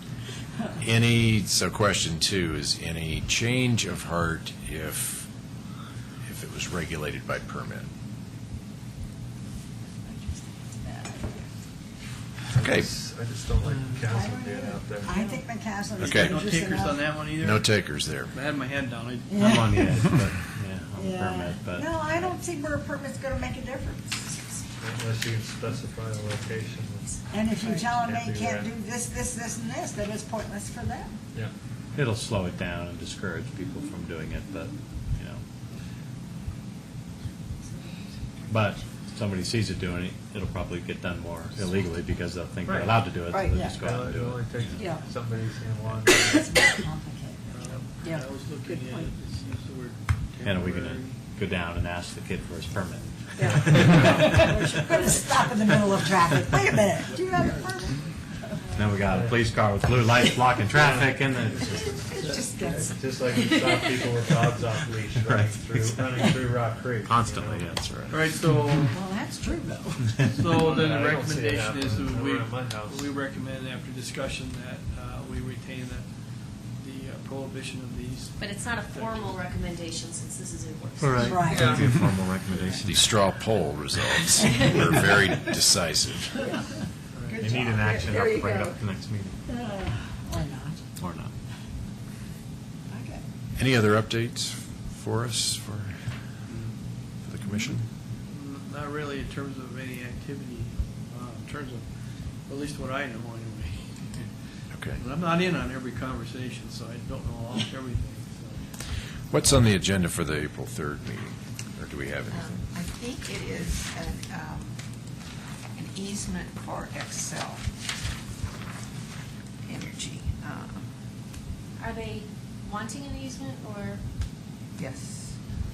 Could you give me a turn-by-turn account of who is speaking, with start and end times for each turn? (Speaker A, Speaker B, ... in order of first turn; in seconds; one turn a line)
Speaker A: 0.8-5.3
Speaker A: 6.2-7.9
Speaker B: 10.0-11.4
Speaker C: 12.5-15.1
Speaker A: 12.6-12.9
Speaker B: 14.1-17.1
Speaker A: 16.0-16.4
Speaker D: 16.0-19.8
Speaker A: 17.3-18.3
Speaker B: 19.3-20.0
Speaker E: 19.4-22.4
Speaker B: 20.9-24.4
Speaker C: 24.8-27.2
Speaker B: 27.3-31.2
Speaker C: 27.8-28.7
Speaker E: 31.9-35.4
Speaker F: 37.6-38.8
Speaker E: 38.5-44.8
Speaker C: 42.6-43.0
Speaker B: 43.3-43.8
Speaker C: 43.5-46.5
Speaker B: 44.7-45.0
Speaker B: 46.1-49.1
Speaker D: 47.5-51.2
Speaker E: 50.4-55.1
Speaker D: 52.7-53.8
Speaker B: 53.4-58.5
Speaker D: 57.0-58.1
Speaker E: 58.7-62.2
Speaker C: 59.0-59.5
Speaker C: 60.7-61.8
Speaker G: 61.7-64.3
Speaker D: 62.2-62.9
Speaker B: 62.4-62.9
Speaker C: 62.7-67.8
Speaker E: 65.2-66.3
Speaker E: 67.0-68.8
Speaker D: 68.1-69.0
Speaker B: 68.9-70.2
Speaker D: 70.2-79.4
Speaker C: 70.4-73.1
Speaker F: 78.4-81.2
Speaker B: 81.1-81.8
Speaker E: 81.3-83.1
Speaker C: 81.4-82.7
Speaker A: 82.8-86.5
Speaker F: 84.4-84.8
Speaker B: 86.3-86.8
Speaker B: 87.3-88.7
Speaker E: 87.4-89.4
Speaker B: 89.5-90.8
Speaker E: 91.0-91.3
Speaker B: 92.9-93.2
Speaker A: 93.5-96.5
Speaker D: 96.5-96.8
Speaker A: 97.2-97.9
Speaker D: 98.2-109.1
Speaker A: 104.7-105.0
Speaker A: 109.3-112.7
Speaker G: 112.3-114.8
Speaker G: 115.7-117.7
Speaker G: 119.6-120.9
Speaker F: 121.8-124.0
Speaker G: 124.7-125.4